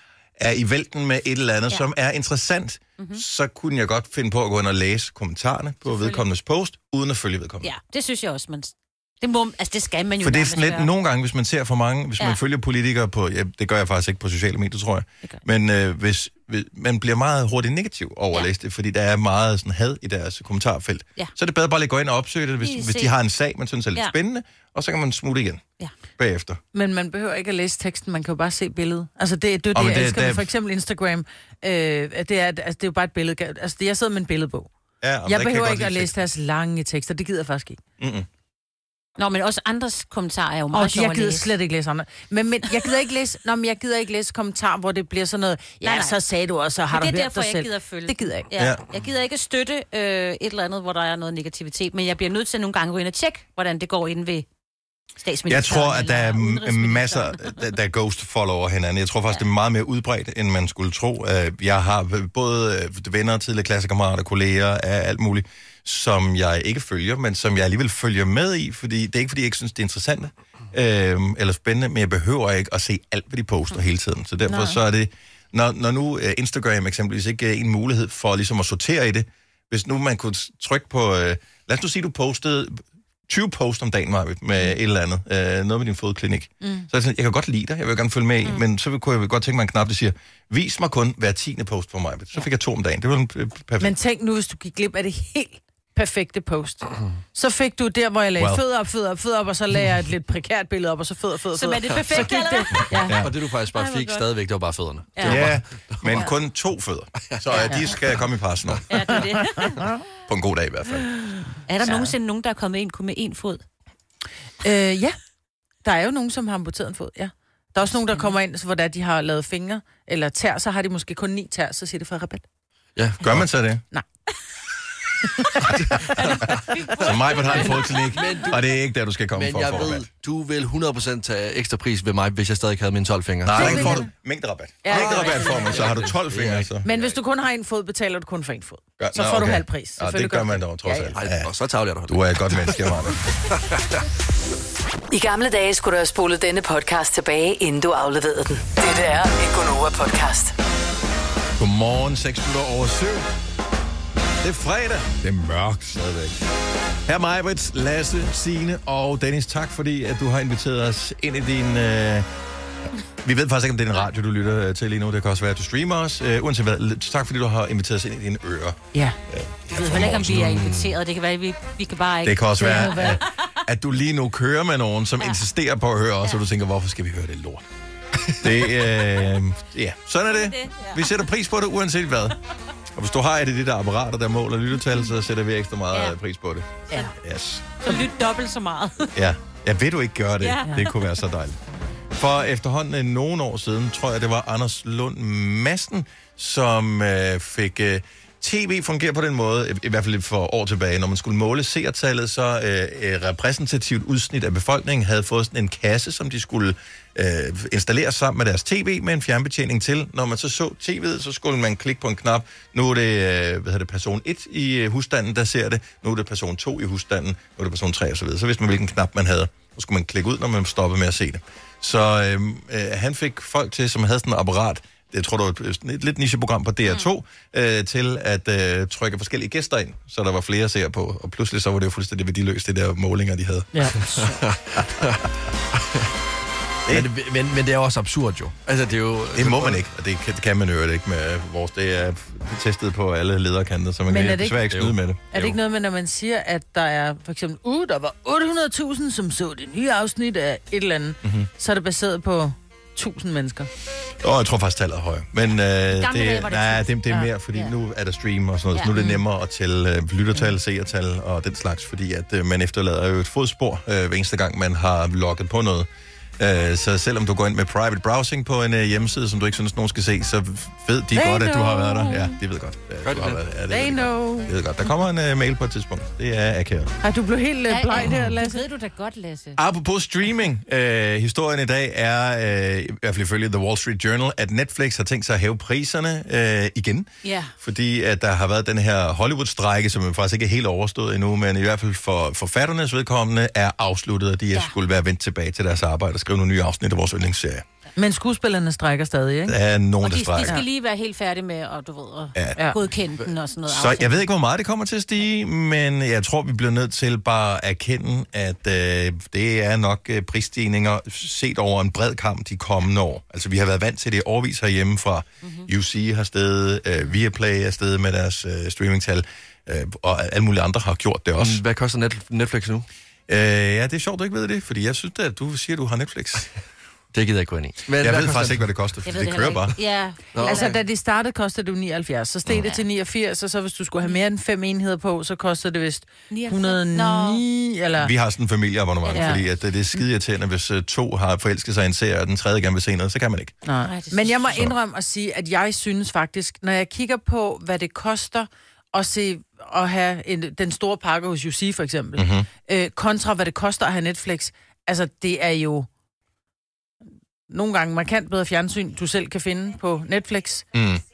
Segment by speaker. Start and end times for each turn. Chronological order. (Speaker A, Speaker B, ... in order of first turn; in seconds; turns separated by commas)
Speaker A: 0.4-7.7, Speaker B: 5.9-6.2, Speaker B: 7.6-10.9, Speaker A: 10.2-25.6, Speaker B: 22.6-23.1, Speaker A: 26.2-26.6, Speaker C: 26.7-34.7, Speaker A: 29.7-30.5, Speaker A: 35.0-36.1, Speaker C: 35.2-37.8, Speaker A: 38.0-38.3, Speaker B: 39.2-41.5, Speaker C: 40.7-48.5, Speaker B: 45.8-46.1, Speaker B: 46.9-54.5, Speaker A: 48.5-48.8, Speaker B: 55.2-57.6, Speaker A: 55.5-94.0, Speaker C: 86.6-86.9, Speaker C: 93.8-103.1, Speaker A: 98.4-98.6, Speaker B: 101.5-104.3, Speaker A: 103.0-103.3, Speaker D: 103.1-106.2, Speaker B: 105.1-105.5, Speaker A: 105.2-109.2, Speaker B: 108.9-109.8, Speaker C: 109.5-110.0, Speaker A: 110.3-111.1, Speaker B: 111.7-113.6, Speaker C: 111.8-112.1, Speaker C: 114.6-115.2, Speaker C: 115.8-122.4, Speaker D: 123.0-123.5, Speaker A: 123.2-123.8, Speaker D: 126.0-126.6, Speaker B: 126.1-128.1, Speaker A: 127.0-130.1, Speaker D: 127.6-128.7, Speaker D: 129.3-134.0, Speaker A: 133.4-136.9, Speaker C: 133.5-134.1, Speaker C: 134.8-135.7, Speaker D: 134.9-137.1, Speaker C: 136.8-141.2, Speaker A: 139.0-141.5, Speaker D: 141.1-143.8, Speaker A: 142.1-143.2, Speaker E: 145.1-150.5, Speaker A: 151.6-153.3, Speaker A: 154.4-156.4, Speaker A: 157.1-162.3, Speaker A: 163.2-170.6, Speaker B: 169.7-173.5, Speaker D: 170.3-170.9, Speaker A: 172.2-177.6, Speaker C: 172.6-173.2, Speaker A: 178.4-182.3, Speaker B: 180.3-181.2, Speaker A: 182.9-187.7, Speaker B: 187.8-189.1, Speaker A: 189.1-191.6, Speaker B: 190.4-191.0, Speaker A: 192.1-234.2, Speaker C: 233.7-234.0, Speaker D: 234.1-236.1, Speaker D: 236.9-239.8, Speaker A: 239.3-245.5, Speaker C: 244.1-244.6, Speaker D: 244.7-244.9, Speaker C: 245.3-253.7, Speaker A: 251.2-251.5, Speaker A: 254.2-265.9, Speaker B: 255.9-257.7, Speaker B: 258.7-259.1, Speaker A: 266.4-276.9, Speaker C: 271.1-272.4, Speaker D: 273.0-273.4, Speaker C: 273.7-274.5, Speaker C: 277.0-278.6, Speaker B: 277.7-279.6, Speaker A: 279.6-297.6, Speaker B: 287.2-287.5, Speaker C: 297.9-299.6, Speaker A: 299.5-300.6, Speaker B: 300.0-304.2, Speaker A: 303.7-321.6, Speaker D: 321.4-322.9, Speaker A: 323.3-326.5, Speaker D: 327.1-328.6, Speaker A: 327.9-329.8, Speaker B: 329.0-330.7, Speaker D: 330.3-330.7, Speaker C: 330.4-338.1, Speaker B: 332.6-332.8, Speaker B: 336.3-337.4, Speaker A: 338.0-343.5, Speaker B: 339.0-339.4, Speaker C: 339.1-339.4, Speaker C: 343.6-355.9, Speaker B: 343.8-344.5, Speaker A: 352.1-352.5, Speaker C: 357.5-360.6, Speaker A: 360.7-361.0